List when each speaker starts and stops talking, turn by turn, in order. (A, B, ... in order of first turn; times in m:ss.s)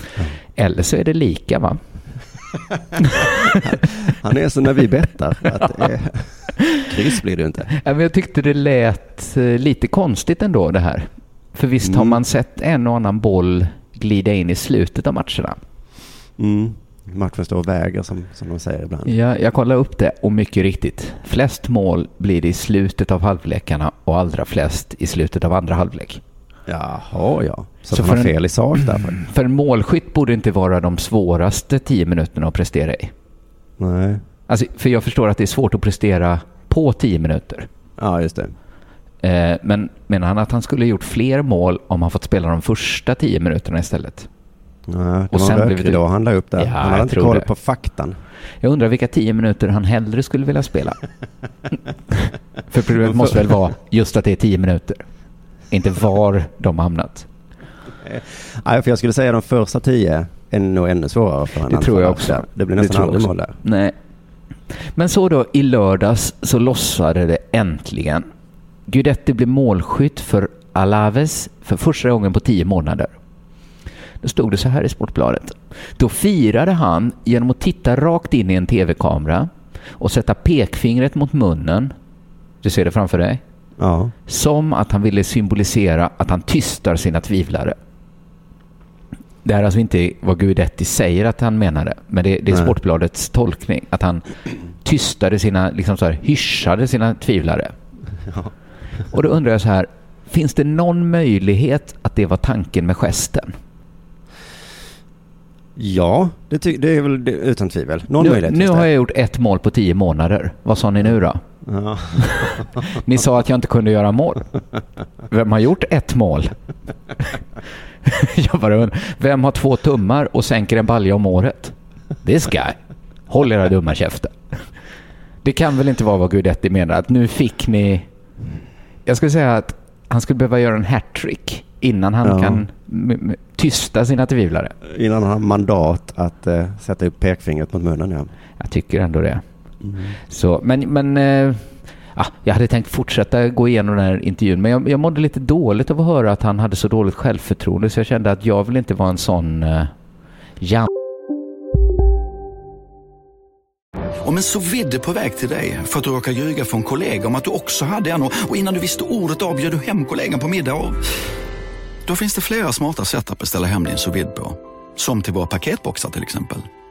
0:00.6-0:01.8 A
0:03.6-0:07.7 B
0:07.8-0:15.6 A
0:11.8-0:12.2 B
0:16.4-0:19.1 B
0:19.0-0:26.2 A
0:26.7-0:29.2 B
0:27.9-0:33.1 A
0:33.8-0:34.2 B
0:34.5-0:37.7 A
0:38.0-0:38.5 B
0:39.2-0:44.3 A
0:44.9-0:48.2 B
0:45.3-0:46.0 A
0:46.6-0:47.5 A
0:48.6-0:51.0 A
0:52.2-0:55.1 A
0:53.0-0:53.4 B
0:55.7-0:57.3 A
0:58.0-1:03.6 B
1:01.7-1:03.9 A
1:04.7-1:08.3 A
1:08.9-1:13.1 A
1:14.2-1:21.9 A
1:22.6-1:23.4 A
1:23.8-1:24.1 B
1:24.3-1:27.8 A
1:29.4-1:34.2 A
1:34.8-1:37.7 A
1:39.1-1:43.6 A
1:45.8-1:48.9 B
1:48.2-1:51.4 A
1:51.6-1:52.7 B
1:52.2-1:54.5 A
1:55.3-1:56.5 A
1:58.0-2:04.6 A
2:05.4-2:08.1 A
2:09.0-2:14.7 A
2:12.2-2:12.6 B
2:14.8-2:18.3 B
2:18.6-2:19.4 A
2:19.8-2:20.2 B
2:20.3-2:30.0 A
2:30.6-2:30.9 A
2:34.2-2:41.0 C
2:42.0-2:46.7 C